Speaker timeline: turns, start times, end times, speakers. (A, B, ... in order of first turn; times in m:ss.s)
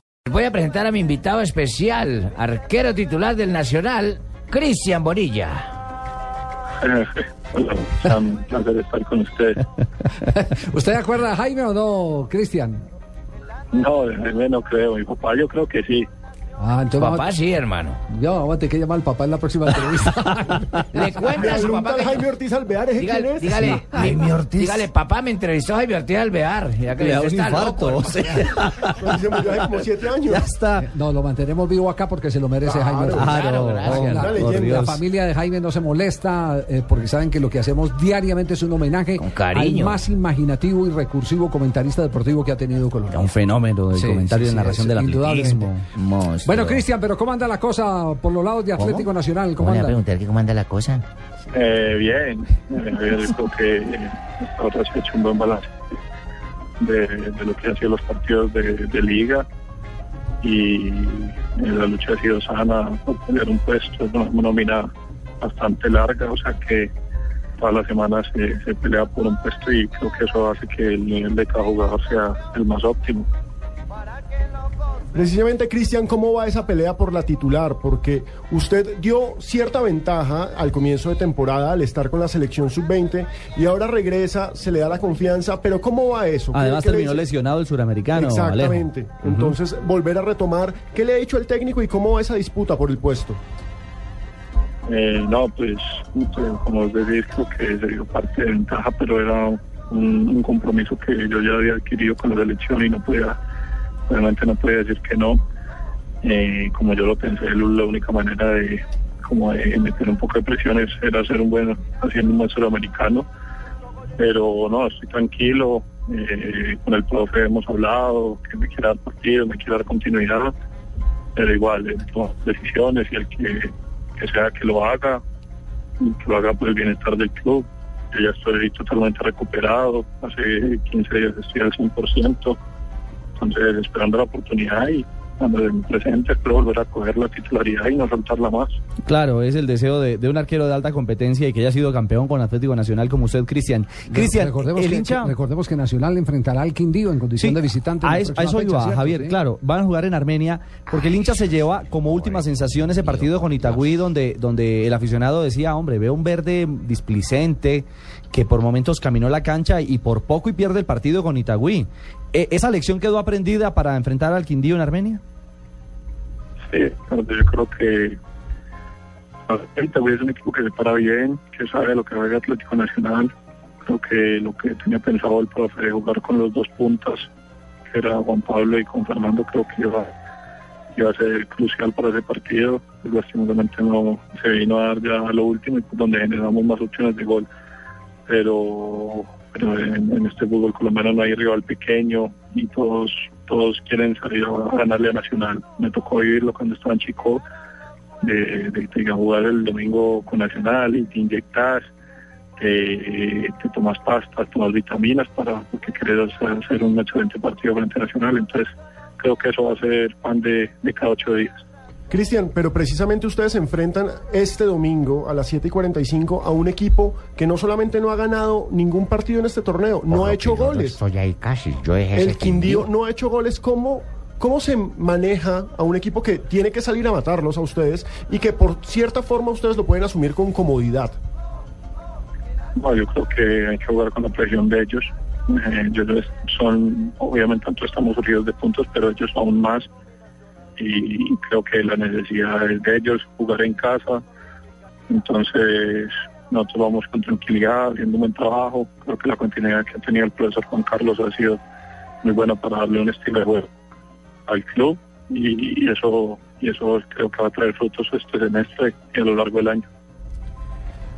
0:00.3-0:05.7 A
0:06.8-0:09.6 B
0:10.2-0:12.8 C
0:13.7-0:16.1 B
0:16.6-0:17.3 C
0:17.0-0:18.0 A
0:18.1-0:21.1 C
0:20.9-0:22.2 A
0:21.3-0:23.8 D
0:23.0-0:28.2 A
0:23.9-0:24.8 E
0:27.0-0:29.1 E
0:29.0-0:30.5 D
0:30.2-0:30.9 E
0:30.8-0:33.4 C
0:32.7-0:34.9 D
0:33.2-0:35.0 E
0:33.2-0:34.1 A
0:33.9-0:43.3 C
0:39.2-0:40.0 A
0:43.1-0:45.8 E
0:43.9-0:45.7 C
0:46.0-0:46.8 A
0:46.4-0:50.0 C
0:48.8-0:51.0 A
0:51.5-0:55.7 B
0:56.8-0:59.4 B
1:00.4-1:04.9 B
1:05.4-1:06.9 B
1:07.6-1:13.3 B
1:15.1-1:27.2 D
1:26.5-1:29.6 E
1:28.1-1:33.4 D
1:34.9-1:43.4 B
1:44.1-1:45.4 B
1:46.2-1:53.3 B
1:54.2-2:00.5 B
2:01.4-2:05.2 B
2:06.0-2:12.6 B
2:13.4-2:18.8 B
2:19.0-2:25.3 E
2:24.1-2:29.4 C
2:27.4-2:45.2 E
2:30.9-2:31.3 A
2:33.0-2:33.9 A
2:46.7-2:48.2 B
2:49.5-2:53.3 B
2:53.9-2:57.3 B
2:57.9-3:00.1 B
3:00.9-3:07.5 B
3:08.3-3:17.4 B
3:18.2-3:21.8 B
3:22.6-3:28.7 B
3:29.2-3:31.6 B
3:32.1-3:41.0 D
3:40.1-3:42.9 A
3:42.1-3:51.2 D
3:52.8-3:59.9 B
4:00.8-4:04.2 B
4:05.1-4:11.6 B
4:12.2-4:13.7 B
4:14.5-4:19.9 B